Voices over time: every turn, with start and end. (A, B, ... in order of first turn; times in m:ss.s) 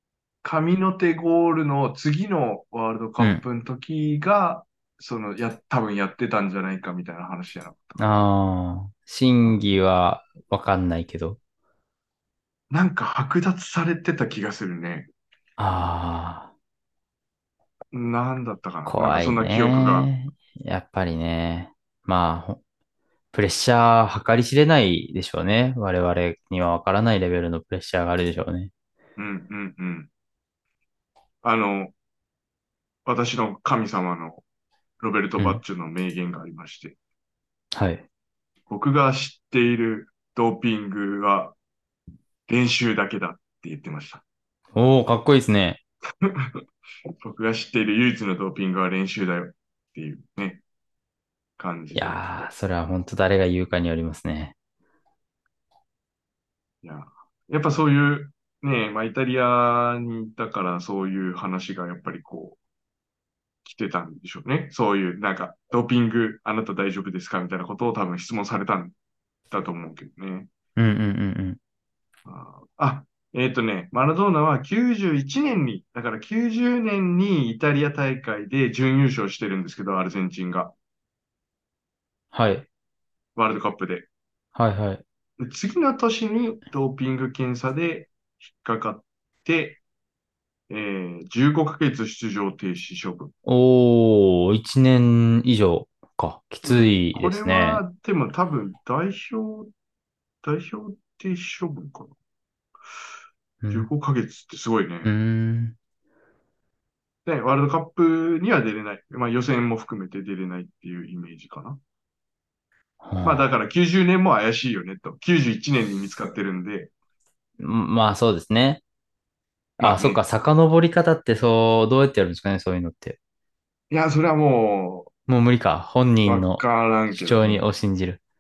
0:00.4-0:08.0 A
0:08.0-0:11.4 B
0:12.7-0:15.1 A
0:15.6-0:16.5 B
0:17.9-0:20.1 A
0:18.8-0:22.6 B
0:23.3-0:28.7 B
0:29.2-0:30.1 A
0:31.4-0:31.9 A
0:33.0-0:34.4 A
0:35.0-0:37.0 A
0:37.7-0:38.0 B
0:38.7-0:41.6 A
0:42.5-0:44.2 A
0:44.8-0:45.8 B
0:46.2-0:46.6 A
0:47.2-0:50.6 A
0:51.6-0:52.5 A
0:51.9-0:54.5 B
0:56.8-1:02.6 A
1:03.6-1:08.9 A
1:09.5-1:10.5 A
1:10.8-1:11.6 B
1:12.2-1:20.8 A
1:22.3-1:22.6 B
1:23.4-1:24.1 A
1:24.5-1:25.0 B
1:25.4-1:29.8 A
1:30.7-1:33.3 A
1:33.5-1:37.8 B
1:36.6-1:39.7 A
1:40.4-1:42.1 A
1:43.6-1:43.9 B
1:43.7-1:45.1 A
1:45.0-1:45.8 B
1:47.2-1:51.8 A
1:53.0-1:53.5 B
1:53.2-1:56.9 A
1:57.6-1:58.8 B
1:59.8-2:00.2 A
1:59.8-2:03.2 B
2:03.9-2:05.1 A
2:05.3-2:06.6 B
2:06.2-2:07.6 A
2:07.1-2:08.2 B